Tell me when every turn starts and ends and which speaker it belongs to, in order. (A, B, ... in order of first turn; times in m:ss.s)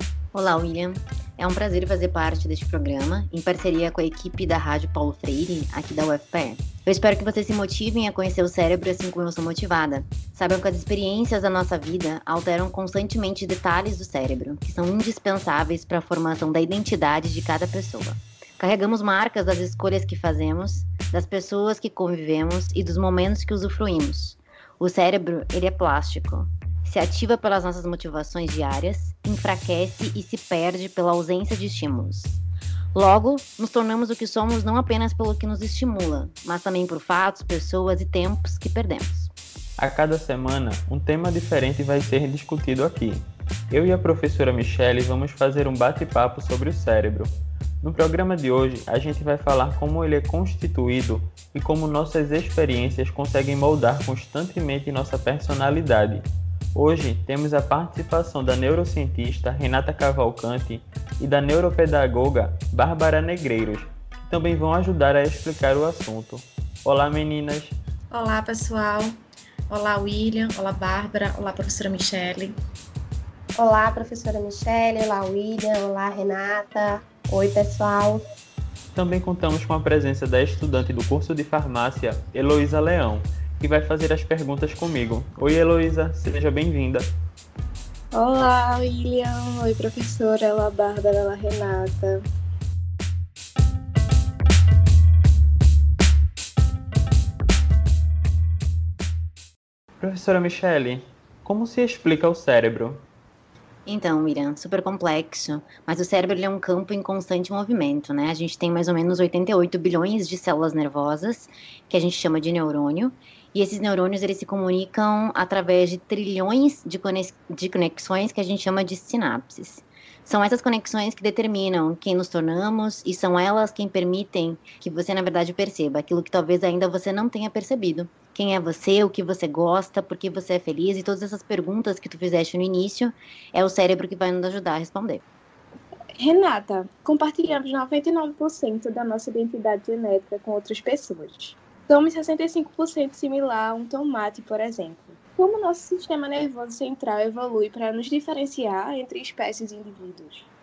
0:00.3-0:32.4 A
0:32.9-0:39.3 A
0:39.8-1:07.7 B
1:08.1-1:09.2 C
1:09.7-1:12.5 C
1:13.6-1:18.2 D
1:18.9-1:27.1 B
1:28.1-1:32.2 E
1:40.0-1:43.0 B
1:43.8-2:15.2 A
2:16.2-2:30.5 E